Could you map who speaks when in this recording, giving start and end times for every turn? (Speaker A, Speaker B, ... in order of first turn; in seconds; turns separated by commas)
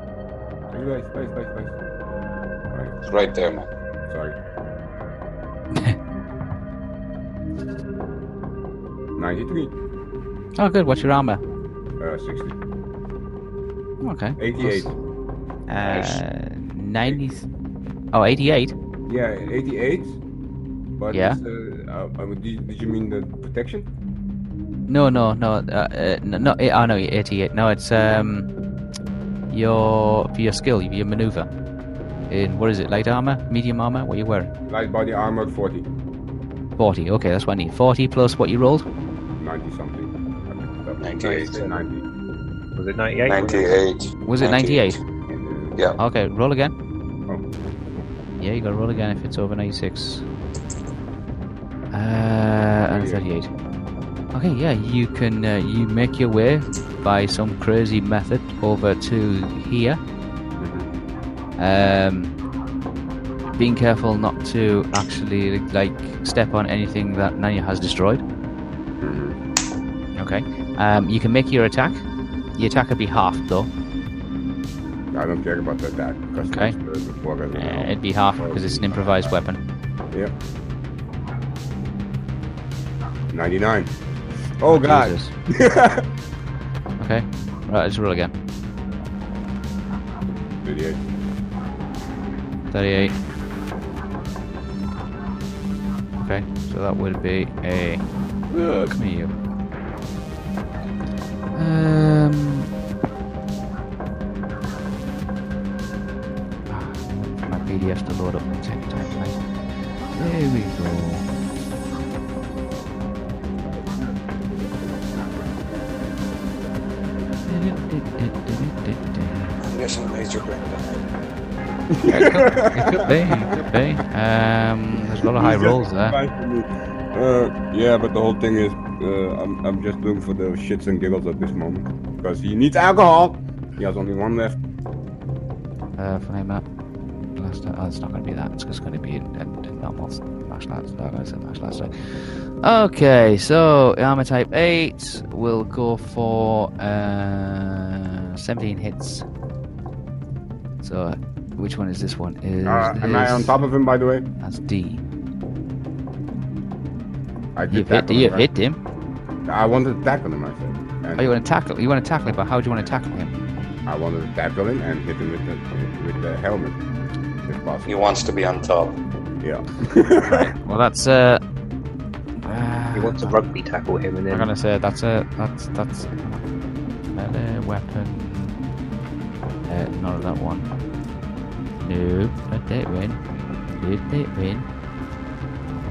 Speaker A: 0.7-1.9, Speaker A: 2.7-3.0, Speaker B: 3.0-3.7, Speaker A: 4.1-4.4, Speaker C: 5.7-6.0, Speaker A: 9.2-9.7, Speaker C: 10.6-11.4, Speaker A: 12.0-12.6, Speaker C: 14.0-14.9, Speaker A: 14.4-14.9, Speaker C: 15.7-17.4, Speaker A: 15.8-16.2, Speaker C: 18.1-18.7, Speaker A: 19.1-20.2, Speaker A: 21.0-23.9, Speaker C: 21.1-21.4, Speaker C: 24.9-28.5, Speaker C: 29.5-31.5, Speaker C: 32.3-34.5, Speaker A: 34.7-35.9, Speaker C: 36.8-38.9, Speaker A: 39.4-42.0, Speaker B: 41.0-41.5, Speaker D: 41.3-41.7, Speaker D: 42.8-43.6, Speaker B: 43.3-45.0, Speaker C: 44.2-45.0, Speaker A: 45.3-45.8, Speaker C: 46.0-46.7, Speaker C: 48.4-50.2, Speaker C: 51.9-53.5, Speaker A: 52.9-53.2, Speaker C: 54.3-60.0, Speaker A: 60.6-60.9, Speaker C: 61.6-62.3, Speaker C: 63.6-68.2, Speaker A: 69.0-69.4, Speaker C: 70.2-72.0, Speaker C: 72.6-73.7, Speaker A: 75.1-79.3, Speaker C: 76.4-76.7, Speaker C: 77.5-79.6, Speaker A: 83.3-83.9, Speaker A: 84.6-86.1, Speaker C: 84.7-85.3, Speaker C: 87.0-88.3, Speaker A: 90.6-91.0, Speaker C: 92.7-93.1, Speaker C: 96.2-99.3, Speaker C: 101.5-102.7, Speaker C: 106.7-109.4, Speaker C: 110.1-111.2, Speaker C: 117.5-119.6, Speaker B: 119.6-120.9, Speaker A: 121.9-123.6, Speaker C: 122.0-126.2, Speaker A: 125.2-134.6, Speaker C: 136.0-136.6, Speaker C: 137.3-149.2, Speaker C: 150.8-153.5, Speaker A: 152.6-154.3, Speaker C: 154.4-155.0, Speaker A: 157.6-158.5, Speaker C: 157.7-158.8, Speaker A: 159.4-161.3, Speaker C: 161.2-163.3, Speaker A: 163.8-166.8, Speaker A: 167.4-167.9, Speaker B: 167.8-169.0, Speaker A: 169.4-170.5, Speaker C: 170.2-171.4, Speaker C: 172.4-173.4, Speaker D: 172.9-174.5, Speaker C: 174.3-176.4, Speaker C: 177.1-178.5, Speaker C: 179.7-180.7, Speaker C: 181.8-183.2, Speaker C: 183.7-184.7